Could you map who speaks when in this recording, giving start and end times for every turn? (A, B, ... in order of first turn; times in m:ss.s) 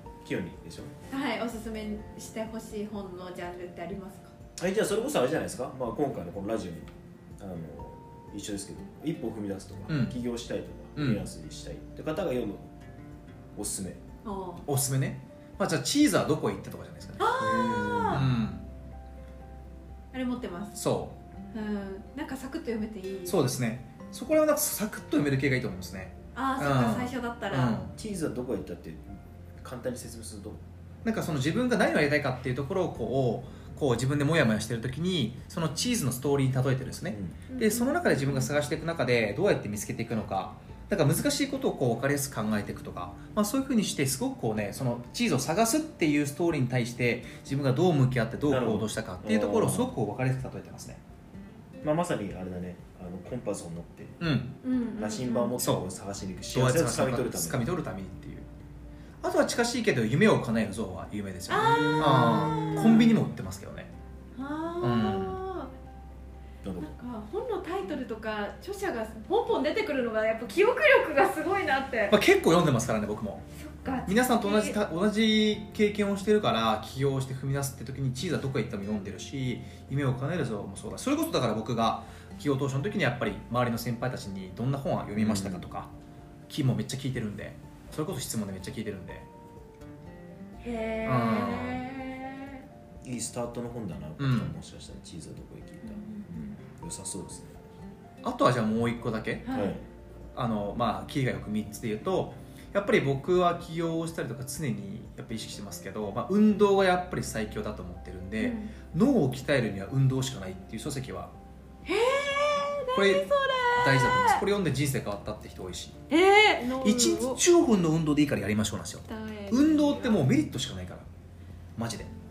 0:00.2-0:01.0 A
0:01.1-0:04.3 B
0:04.6-0:06.9 A
0:07.4-0:12.7 A
0:09.9-0:10.2 C
0:11.0-0:11.2 C
0:13.6-0:14.0 A
0:14.2-0:14.7 B
0:14.7-0:17.2 C
0:17.2-0:18.2 B
0:17.4-0:18.3 A
0:18.1-0:18.6 C
0:20.1-0:20.8 B
0:20.8-0:21.2 C
0:21.5-0:23.4 B
0:23.3-0:27.9 C
0:26.3-0:27.8 B
0:28.0-0:30.6 A
0:31.0-0:51.0 C
0:37.1-0:37.4 A
0:37.5-0:38.5 B
0:48.5-0:49.9 A
0:51.8-0:54.2 A
0:54.2-0:54.5 C
0:54.6-0:55.5 B
0:55.0-0:57.7 A
0:55.6-0:55.8 C
0:56.5-0:58.5 C
0:59.2-1:03.9 C
1:01.5-1:03.2 B
1:01.5-1:03.2 A
1:04.4-1:05.7 B
1:04.8-1:05.4 C
1:06.6-1:06.9 A
1:06.8-1:12.2 B
1:12.1-1:13.4 C
1:13.6-1:14.8 B
1:14.0-1:25.9 C
1:25.2-1:25.7 A
1:26.5-1:29.3 C
1:30.6-1:32.6 B
1:31.0-1:31.8 C
1:33.0-1:37.6 A
1:34.2-1:34.6 C
1:35.9-1:36.3 B
1:38.2-1:39.5 C
1:39.4-1:39.8 B
1:39.5-1:39.8 A
1:40.3-1:51.3 C
1:48.4-1:48.7 B
1:51.8-1:54.4 B
1:52.9-1:56.0 C
1:56.1-1:57.4 B
1:56.8-2:01.1 C
1:59.1-1:59.8 B
2:01.8-2:02.1 C